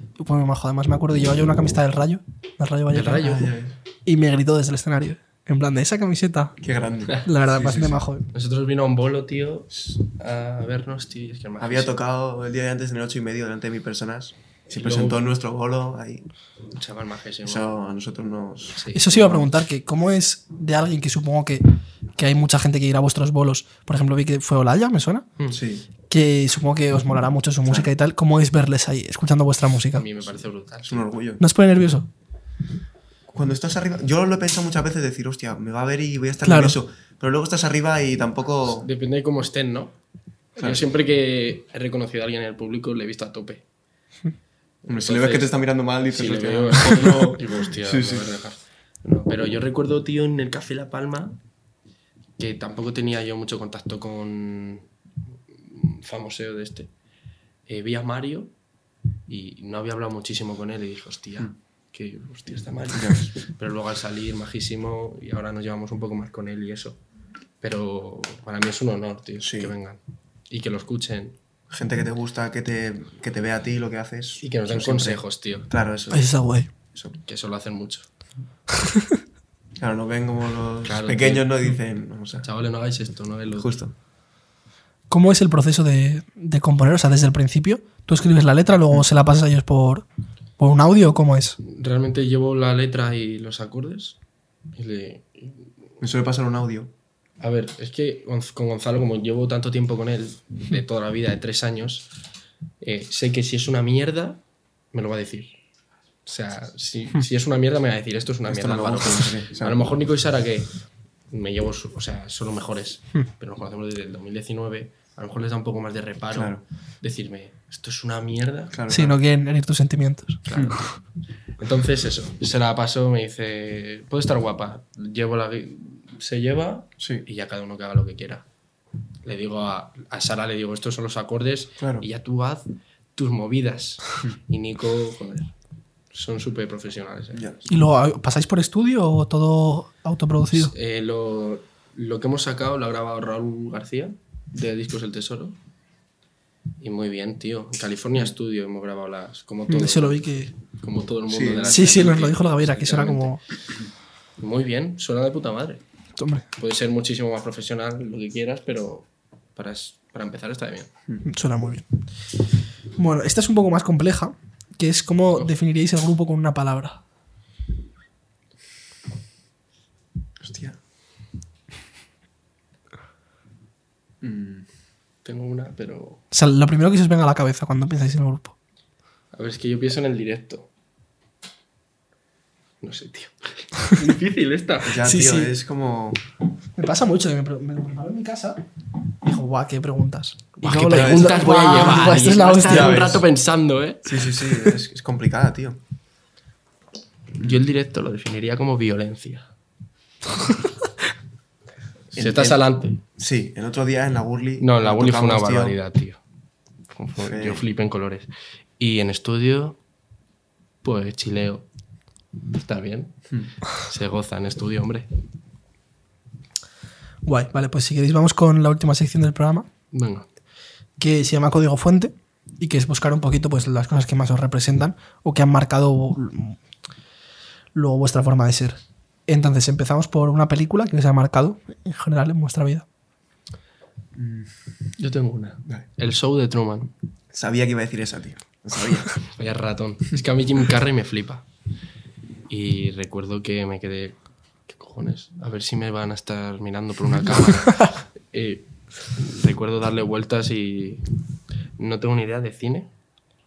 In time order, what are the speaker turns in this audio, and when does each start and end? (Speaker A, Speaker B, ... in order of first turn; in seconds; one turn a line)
Speaker A: 0.2-3.5
Speaker B: 2.9-3.5
Speaker C: 3.2-3.8
Speaker A: 4.1-6.6
Speaker C: 6.6-8.0
Speaker A: 7.2-8.3
Speaker B: 8.3-12.0
Speaker C: 11.6-16.3
Speaker B: 14.8-15.3
Speaker B: 16.7-17.7
Speaker C: 17.4-18.8
Speaker B: 18.8-19.5
Speaker A: 18.9-25.3
Speaker C: 25.5-25.9
Speaker A: 26.1-30.1
Speaker B: 29.9-31.1
Speaker C: 30.9-31.4
Speaker A: 31.4-32.1
Speaker C: 33.3-38.9
Speaker A: 36.4-36.8
Speaker B: 38.7-40.0
Speaker B: 40.5-43.6
Speaker C: 40.6-40.8
Speaker B: 44.9-45.5
Speaker C: 44.9-48.3
Speaker B: 46.1-51.4
Speaker B: 52.4-54.9
Speaker B: 55.5-56.9
Speaker B: 57.7-58.5
Speaker B: 59.3-67.0
Speaker C: 62.9-63.3
Speaker B: 67.6-71.4
Speaker C: 69.4-69.7
Speaker C: 71.7-76.3
Speaker B: 74.4-75.8
Speaker A: 76.1-76.7
Speaker C: 76.9-77.2
Speaker B: 77.3-78.1
Speaker A: 78.9-79.2
Speaker C: 79.8-82.5
Speaker B: 80.8-81.5
Speaker B: 82.4-83.8
Speaker C: 83.6-83.9
Speaker A: 85.1-90.1
Speaker A: 90.6-91.6
Speaker B: 91.6-94.2
Speaker B: 94.7-95.7
Speaker C: 96.0-96.9
Speaker B: 97.4-102.1
Speaker B: 102.8-104.4
Speaker B: 104.9-105.5
Speaker B: 106.3-110.8
Speaker C: 108.5-109.9
Speaker B: 111.3-118.8
Speaker C: 116.3-116.6
Speaker C: 118.7-119.2
Speaker A: 118.9-120.8
Speaker B: 120.5-120.8
Speaker C: 120.5-120.8
Speaker B: 121.6-128.5
Speaker C: 127.0-127.2
Speaker B: 129.2-135.5
Speaker C: 131.8-132.1
Speaker B: 136.1-137.4
Speaker C: 137.3-137.7
Speaker A: 137.7-140.7
Speaker B: 140.5-145.6
Speaker B: 146.8-153.4
Speaker A: 149.7-150.5
Speaker C: 151.3-151.9
Speaker A: 151.7-153.4
Speaker B: 154.4-155.8
Speaker A: 156.2-156.4
Speaker B: 156.6-160.9
Speaker A: 161.2-161.9
Speaker A: 163.0-167.0
Speaker C: 170.4-170.8
Speaker C: 174.2-174.7
Speaker B: 175.2-176.2
Speaker A: 176.3-178.6
Speaker B: 179.3-180.7
Speaker B: 182.8-185.0
Speaker C: 184.8-186.2
Speaker A: 185.0-185.6
Speaker A: 186.8-188.7
Speaker A: 189.2-193.1
Speaker C: 190.6-193.3
Speaker B: 190.6-194.2
Speaker C: 194.0-195.8
Speaker B: 197.4-199.5
Speaker C: 197.4-197.6
Speaker B: 202.1-203.0
Speaker C: 202.1-205.8
Speaker B: 204.6-206.2
Speaker B: 206.9-209.8
Speaker C: 207.2-207.6
Speaker B: 210.8-211.7
Speaker B: 212.6-215.1
Speaker A: 217.2-219.7
Speaker B: 219.9-220.3
Speaker A: 221.0-226.6
Speaker A: 227.7-232.8
Speaker C: 234.2-234.9
Speaker B: 235.0-236.9
Speaker C: 237.3-239.2
Speaker B: 239.3-241.4
Speaker B: 242.5-244.2
Speaker B: 244.7-251.1
Speaker B: 251.8-252.9